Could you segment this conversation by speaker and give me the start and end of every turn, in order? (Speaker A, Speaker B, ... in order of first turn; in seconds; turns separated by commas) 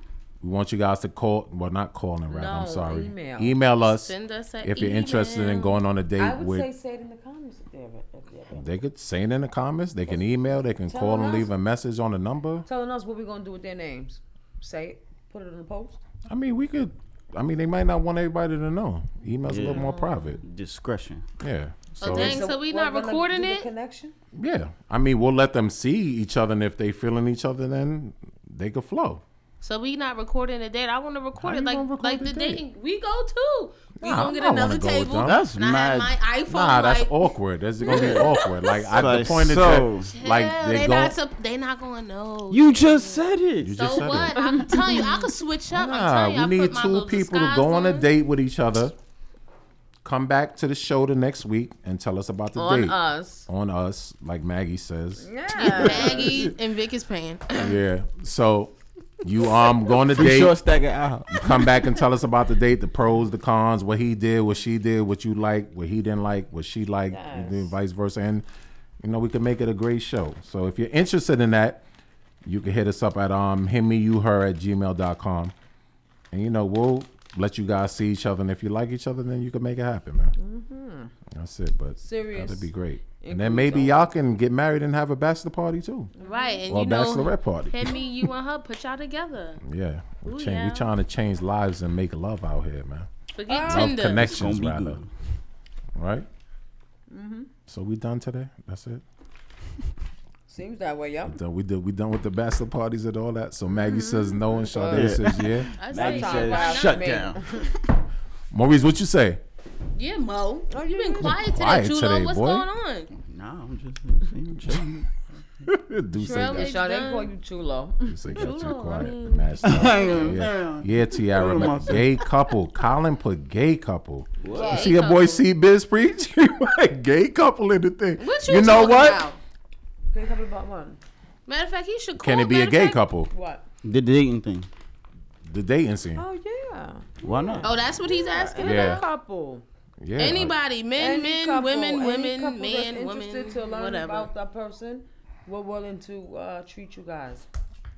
Speaker A: 0.4-6.7, Speaker B: 2.3-3.6, Speaker C: 3.9-5.8, Speaker B: 6.2-8.8, Speaker A: 8.5-12.7, Speaker B: 10.9-11.5, Speaker B: 12.7-16.0, Speaker A: 16.3-20.4, Speaker D: 19.5-19.9, Speaker B: 19.6-20.4, Speaker D: 20.4-21.3, Speaker A: 21.4-22.4, Speaker C: 22.0-23.7, Speaker B: 22.0-24.1, Speaker A: 24.4-29.2, Speaker C: 29.6-37.3, Speaker A: 31.4-32.6, Speaker A: 34.0-35.4, Speaker D: 35.2-36.1, Speaker A: 36.5-41.1, Speaker C: 37.8-38.9, Speaker D: 37.9-38.3, Speaker D: 38.9-40.1, Speaker C: 40.1-48.1, Speaker D: 42.5-44.0, Speaker A: 43.6-44.9, Speaker B: 44.5-45.2, Speaker A: 45.7-49.0, Speaker A: 50.0-56.5, Speaker B: 52.6-53.5, Speaker B: 55.2-56.4, Speaker C: 55.5-57.8, Speaker A: 57.5-60.6, Speaker D: 60.1-61.7, Speaker A: 61.3-68.5, Speaker B: 67.1-67.7, Speaker A: 69.0-71.8, Speaker A: 72.4-75.5, Speaker A: 76.3-80.3, Speaker B: 80.4-81.1, Speaker A: 81.3-86.1, Speaker B: 82.0-84.0, Speaker B: 86.2-86.6, Speaker C: 86.2-89.6, Speaker A: 86.7-88.0, Speaker A: 89.6-95.0, Speaker C: 90.2-90.9, Speaker C: 93.3-94.3, Speaker B: 93.5-93.9, Speaker D: 94.2-95.1, Speaker A: 96.0-96.3, Speaker B: 97.1-97.5, Speaker A: 97.7-99.0, Speaker B: 100.5-101.4, Speaker A: 101.2-105.7, Speaker B: 103.7-107.7, Speaker D: 104.9-107.8, Speaker C: 105.8-107.2, Speaker A: 108.5-109.4, Speaker C: 110.0-113.1, Speaker B: 110.7-111.3, Speaker A: 111.2-112.7, Speaker D: 113.1-115.1, Speaker A: 115.7-116.7, Speaker C: 116.2-117.3, Speaker B: 116.4-118.2, Speaker A: 118.1-129.2, Speaker C: 118.3-120.2, Speaker D: 119.6-122.2, Speaker D: 124.4-124.8, Speaker B: 124.5-124.9, Speaker C: 124.5-125.5, Speaker C: 128.2-129.4, Speaker B: 130.1-131.0, Speaker C: 131.5-133.0, Speaker A: 132.2-133.3, Speaker B: 133.3-133.6, Speaker D: 133.8-134.7, Speaker A: 135.4-136.3, Speaker B: 136.2-139.7, Speaker D: 137.2-137.8, Speaker C: 137.6-139.1, Speaker A: 138.6-139.0, Speaker A: 140.0-140.6, Speaker C: 140.2-144.3, Speaker B: 141.0-147.5